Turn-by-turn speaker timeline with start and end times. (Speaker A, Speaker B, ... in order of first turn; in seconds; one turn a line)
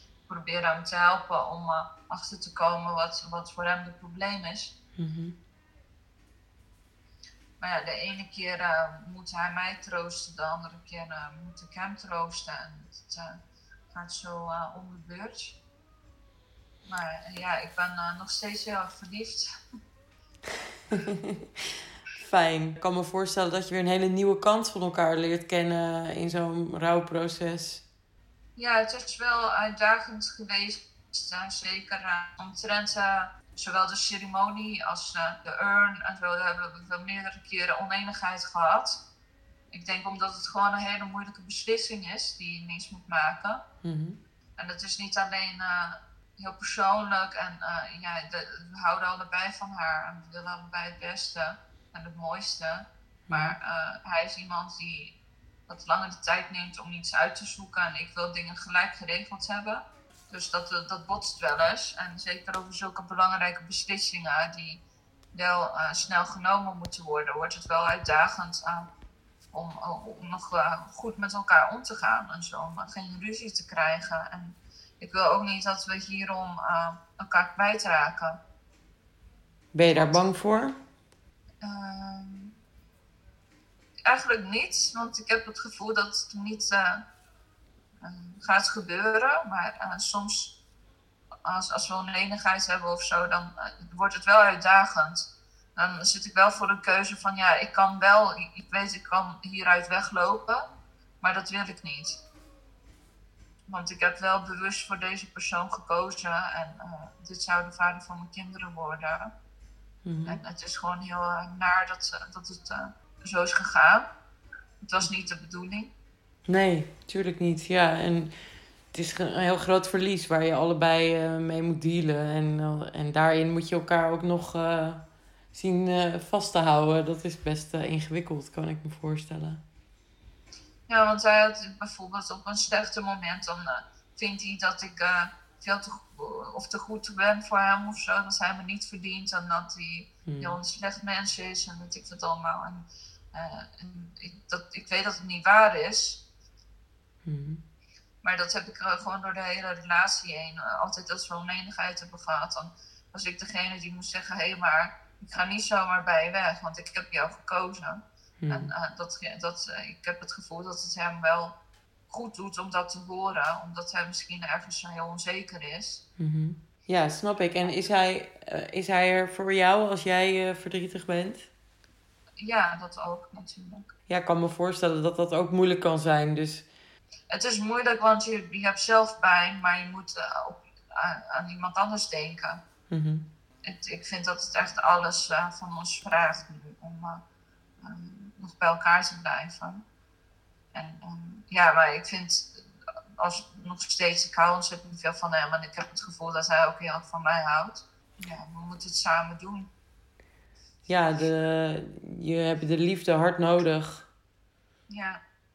Speaker A: 0.3-4.8
Speaker B: 5.0-5.4
Speaker A: 7.6-13.4
Speaker A: 13.9-15.6
Speaker A: 16.9-19.5
Speaker B: 20.9-27.8
Speaker A: 28.6-39.0
Speaker A: 39.7-43.6
Speaker B: 43.8-44.2
Speaker A: 44.6-64.8
Speaker B: 53.3-53.6
Speaker A: 65.3-68.9
Speaker A: 69.5-78.4
Speaker B: 79.7-80.8
Speaker A: 79.9-80.2
Speaker A: 81.6-82.5
Speaker A: 84.1-87.0
Speaker A: 88.0-90.5
Speaker A: 91.5-100.7
Speaker A: 101.2-102.2
Speaker A: 103.7-109.3
Speaker B: 110.0-110.4
Speaker A: 110.2-114.1
Speaker A: 114.8-115.9
Speaker B: 116.5-118.4
Speaker B: 118.9-129.6
Speaker A: 130.9-146.2
Speaker B: 140.3-140.6
Speaker B: 147.2-147.6
Speaker A: 148.2-161.6
Speaker B: 158.4-158.7
Speaker A: 162.1-166.0
Speaker B: 166.2-171.5
Speaker A: 172.4-173.9
Speaker B: 174.1-176.7
Speaker A: 177.3-182.6
Speaker B: 182.9-183.3
Speaker A: 183.7-187.2
Speaker A: 187.8-189.8
Speaker A: 190.7-199.7
Speaker B: 200.9-204.1
Speaker A: 204.9-205.2